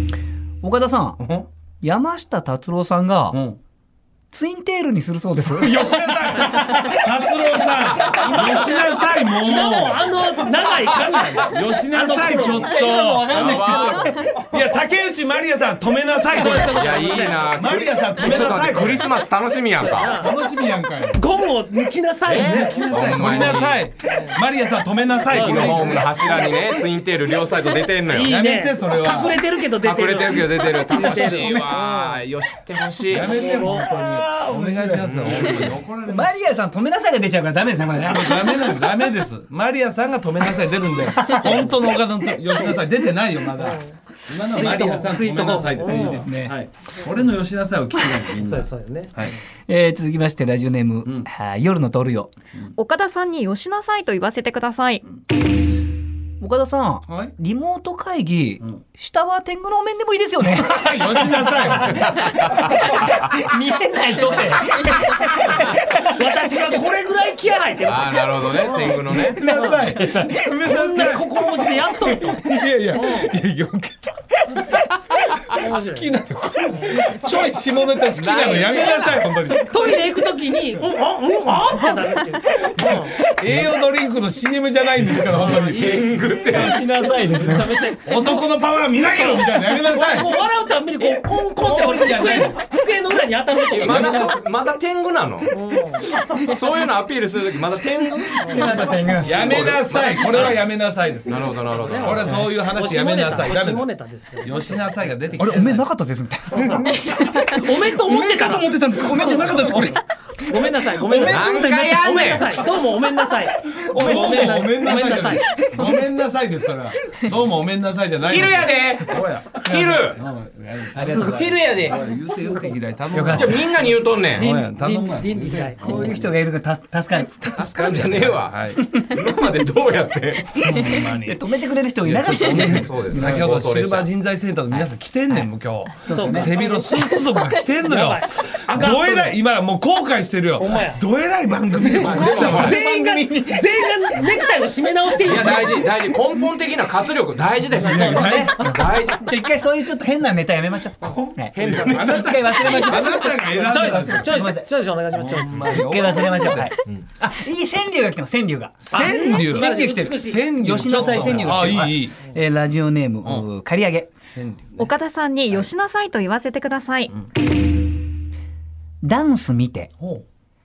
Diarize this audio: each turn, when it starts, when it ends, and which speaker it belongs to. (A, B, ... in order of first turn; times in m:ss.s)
0:00.6-0:01.2 A
0:01.2-0:01.5 B
0:01.8-0:03.5 A
0:03.3-0:03.6 B
0:04.3-0:06.9 A
0:05.6-0:10.3 B
0:08.0-0:12.8 C
0:10.8-0:11.4 D
0:11.5-0:16.9 B
0:12.3-0:14.4 A
0:13.3-0:14.3 D
0:16.2-0:17.6 C
0:16.5-0:20.2 D
0:17.6-0:19.2 B
0:19.8-0:20.5 C
0:20.1-0:21.2 B
0:21.1-0:23.2 C
0:22.3-0:23.9 D
0:22.4-0:26.0 B
0:24.1-0:24.4 C
0:25.2-0:26.6 C
0:25.2-0:28.4 D
0:28.1-0:32.2 C
0:28.2-0:29.4 B
0:29.8-0:33.5 D
0:30.9-0:31.8 A
0:33.1-0:36.4 B
0:33.2-0:39.0 A
0:33.3-0:33.9 C
0:35.0-0:35.8 D
0:38.0-0:49.4 B
0:41.1-0:42.5 A
0:43.5-0:46.3 C
0:45.8-0:46.6 A
0:48.3-0:49.1 C
0:49.7-0:52.3 A
0:52.8-0:55.0 E
0:56.4-1:06.0 A
0:57.1-0:57.3 B
1:00.6-1:02.2 B
1:06.1-1:10.0 C
1:07.8-1:09.4 D
1:09.3-1:14.3 B
1:09.8-1:10.5 A
1:10.7-1:12.4 C
1:12.9-1:13.3 C
1:15.5-1:20.0 B
1:15.6-1:16.1 C
1:18.1-1:19.2 D
1:19.6-1:23.2 C
1:22.6-1:26.1 B
1:25.3-1:34.3 C
1:25.4-1:26.8 D
1:26.5-1:27.8 A
1:28.0-1:30.3 B
1:31.6-1:32.6 B
1:33.7-1:35.5 D
1:33.8-1:34.2 B
1:35.5-1:36.1 C
1:36.4-1:40.6 D
1:38.4-1:40.6 C
1:38.4-1:39.9 A
1:39.2-1:43.9 B
1:41.2-1:42.6 D
1:41.5-1:45.0 C
1:42.1-1:42.6 A
1:44.4-1:45.9 B
1:45.4-1:52.1 A
1:47.6-1:55.6 C
1:49.1-1:49.8 B
1:51.2-1:52.8 D
1:53.7-1:56.0 A
1:53.9-2:06.3 B
1:58.2-2:00.2 D
1:59.6-2:00.1 A
2:00.9-2:01.6 A
2:01.0-2:02.1 D
2:03.1-2:03.6 A
2:03.3-2:04.6 D
2:04.4-2:06.1 C
2:05.8-2:07.4 A
2:07.4-2:08.8 B
2:07.6-2:10.7 D
2:10.6-2:13.5 A
2:10.6-2:11.4 B
2:12.0-2:22.8 B
2:12.5-2:14.1 D
2:14.7-2:15.5 A
2:16.0-2:16.7 A
2:16.1-2:19.4 C
2:20.6-2:21.0 C
2:21.7-2:26.0 C
2:21.9-2:22.8 D
2:22.0-2:23.7 A
2:25.2-2:29.2 D
2:27.7-2:28.8 C
2:27.8-2:34.7 A
2:27.8-2:28.6 B
2:31.0-2:36.0 C
2:31.0-2:34.5 B
2:35.1-2:36.7 B
2:35.7-2:39.1 A
2:38.9-2:42.2 B
2:38.9-2:41.5 C
2:39.1-2:39.4 E
2:40.6-2:44.1 A
2:44.3-2:44.9 B
2:44.8-2:47.1 E
2:49.0-2:49.9 A